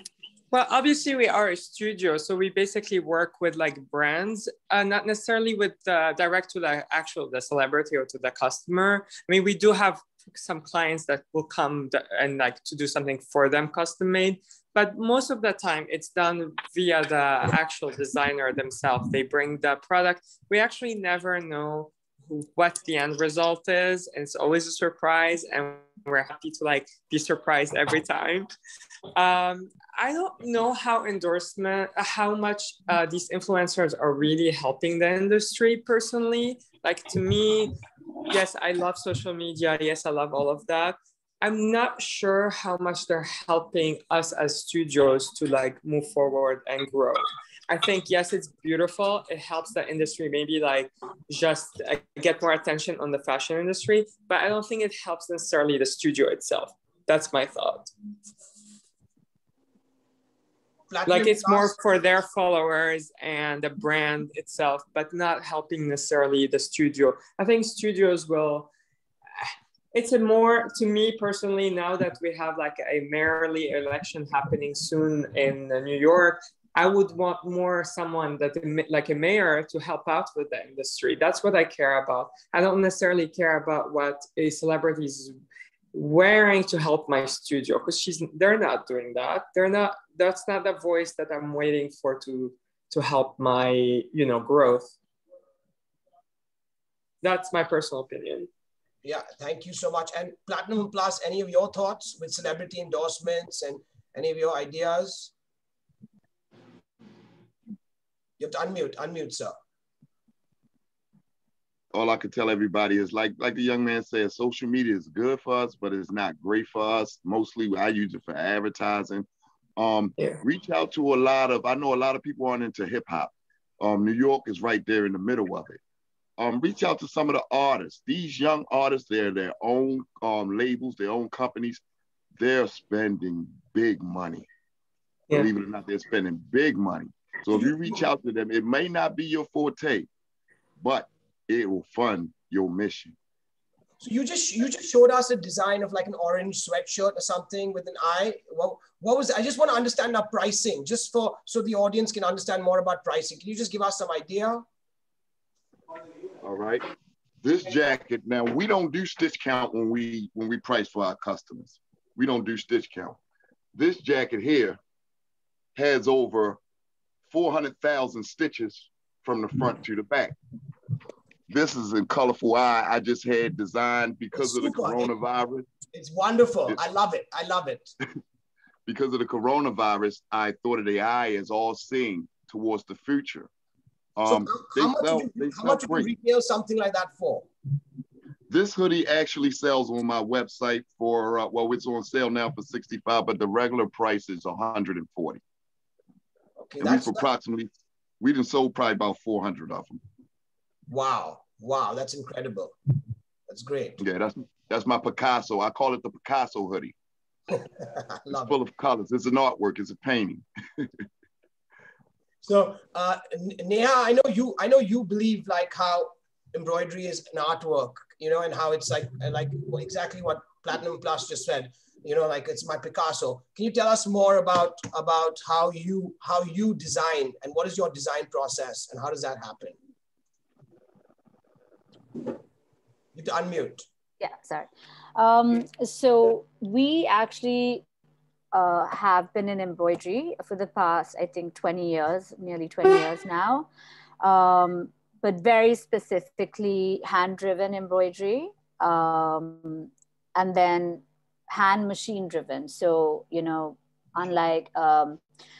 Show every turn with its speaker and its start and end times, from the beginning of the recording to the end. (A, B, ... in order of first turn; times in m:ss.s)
0:00.5-0:28.5 A
0:29.1-0:37.8 A
0:38.3-0:57.9 A
1:00.9-1:01.8 B
1:01.1-1:08.7 A
1:09.4-1:25.4 A
1:25.9-1:34.9 A
1:37.2-1:38.5 A
1:39.0-1:45.3 B
1:48.4-1:49.5 B
1:51.9-2:05.8 C
2:06.4-2:11.8 C
2:12.4-2:14.5 C
2:15.3-2:20.1 C
2:20.8-2:23.1 C
2:24.0-2:34.6 B
2:36.4-2:36.8 C
2:37.4-2:43.2 C
2:43.7-2:44.8 C
2:45.8-2:46.6 C
2:47.3-2:50.4 C
2:51.5-2:55.7 C
2:54.4-2:55.1 B
2:55.9-2:57.9 B
2:58.9-3:03.5 C
3:04.2-3:06.1 C
3:04.3-3:07.5 B
3:08.5-3:15.4 C
3:16.6-3:17.2 B
3:16.8-3:20.0 C
3:20.9-3:22.8 B
3:23.5-3:24.0 B
3:24.0-3:26.9 C
3:27.5-3:28.6 B
3:28.4-3:30.9 C
3:32.4-3:49.8 B
3:53.1-3:53.8 B
3:54.2-3:57.8 D
3:58.5-4:03.7 D
4:04.2-4:15.2 D